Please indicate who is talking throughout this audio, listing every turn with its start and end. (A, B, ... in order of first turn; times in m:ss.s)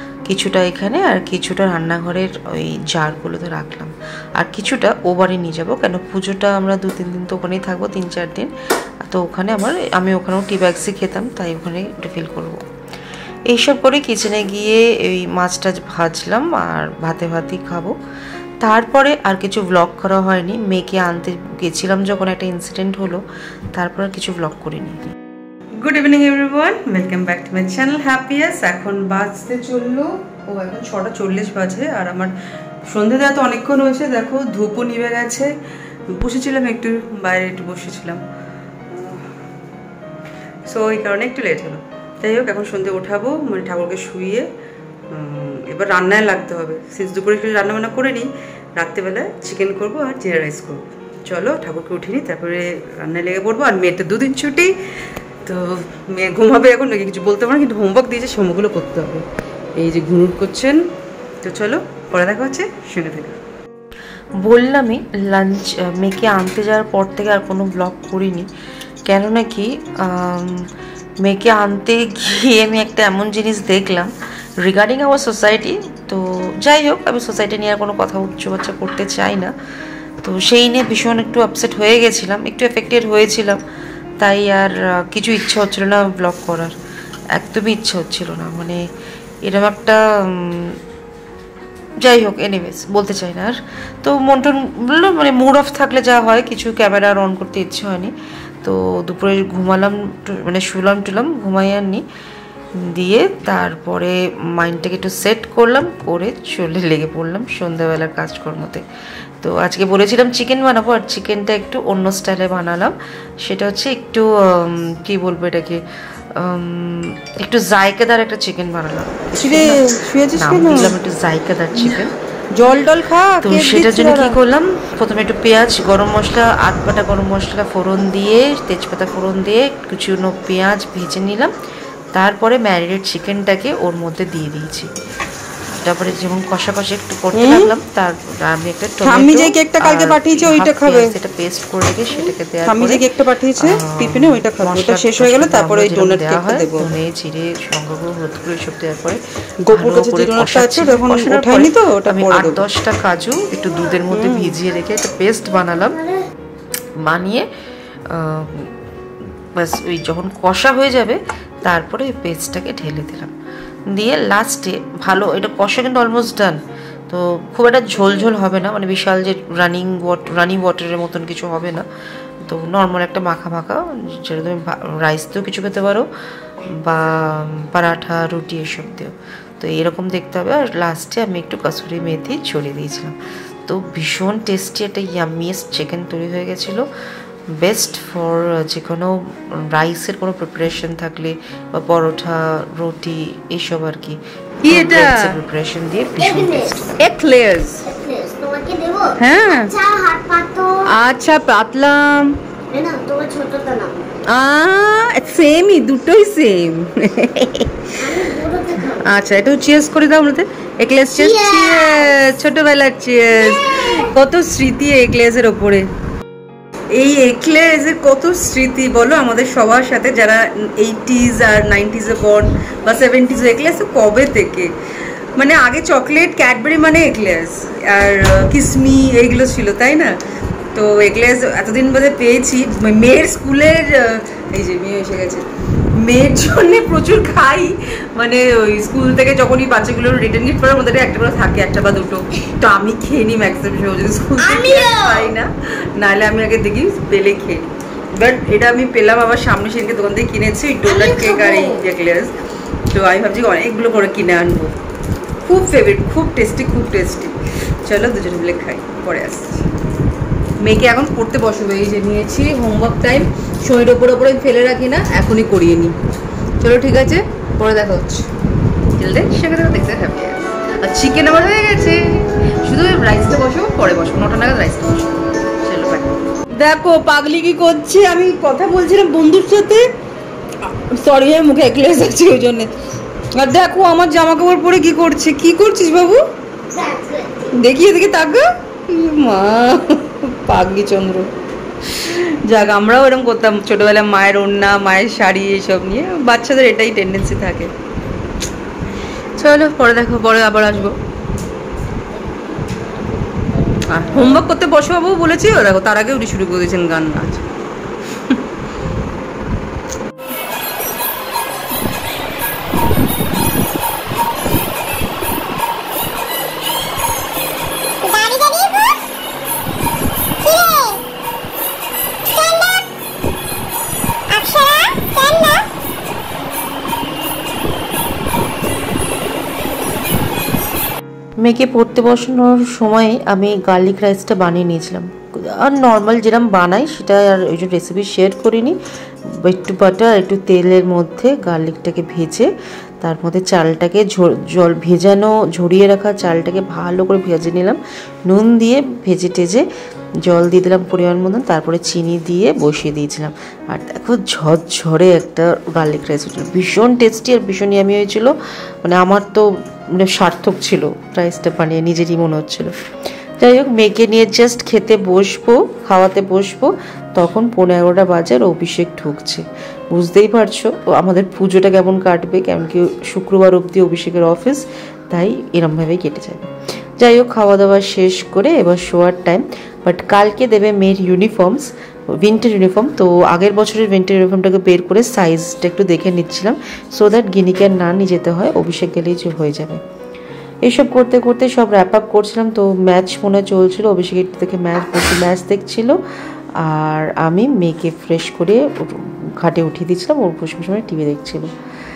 0:00.3-0:12.6 A
0:13.5-0:18.0 A
0:18.6-0:25.1 A
0:25.8-0:32.4 B
0:32.9-0:35.6 B
0:36.1-0:38.2 B
0:38.9-0:39.3 B
0:40.7-0:44.5 B
0:45.1-0:54.8 B
0:55.4-0:59.2 B
0:59.8-1:00.8 B
1:01.4-1:03.4 B
1:04.4-1:08.5 A
1:09.1-1:10.7 A
1:11.2-1:19.5 A
1:20.2-1:23.6 A
1:24.2-1:26.7 A
1:27.4-1:28.8 A
1:29.4-1:30.8 A
1:32.0-1:42.0 A
1:42.8-1:48.8 A
1:49.4-1:55.8 A
1:56.3-2:02.1 A
1:59.4-2:01.0 B
2:01.9-2:04.4 B
2:03.4-2:11.5 A
2:12.1-2:14.9 A
2:15.8-2:23.0 A
2:17.3-2:17.7 B
2:19.0-2:21.1 B
2:22.7-2:26.9 B
2:23.6-2:36.1 A
2:29.7-2:32.6 B
2:34.1-2:34.6 B
2:37.0-2:37.5 A
2:38.1-2:38.7 A
2:39.6-2:43.3 A
2:43.9-2:51.9 A
2:52.4-2:56.1 A
2:56.6-3:03.2 A
3:03.7-3:06.9 A
3:07.6-3:17.0 A
3:14.6-3:15.4 B
3:16.2-3:16.6 C
3:17.0-3:17.9 B
3:17.9-3:20.9 C
3:19.2-3:19.7 B
3:20.8-3:22.4 B
3:22.7-3:24.1 C
3:24.3-3:28.4 B
3:28.0-3:29.0 C
3:29.0-3:35.9 B
3:31.2-3:32.1 C
3:36.9-3:44.7 B
3:45.4-3:50.2 B
3:50.8-3:55.4 B
3:56.0-4:12.4 B
4:04.6-4:05.2 C
4:11.0-4:11.8 C
4:12.9-4:14.8 B
4:15.4-4:19.7 B
4:20.6-4:26.0 B
4:26.6-4:28.3 B
4:29.0-4:39.9 B
4:40.6-4:42.8 B
4:43.3-4:46.2 B
4:46.7-4:47.5 C
4:47.5-4:51.3 B
4:52.0-4:57.7 B
4:59.4-5:01.0 B
5:03.9-5:07.5 B
5:18.0-5:19.0 C
5:20.4-5:21.0 C
5:22.3-5:22.8 C
5:24.3-5:25.7 C
5:31.4-5:38.8 A
5:39.4-5:42.5 A
5:43.0-5:49.6 A
5:50.3-6:02.7 A
6:03.4-6:29.8 A
6:30.6-6:36.0 A
6:36.6-6:41.5 A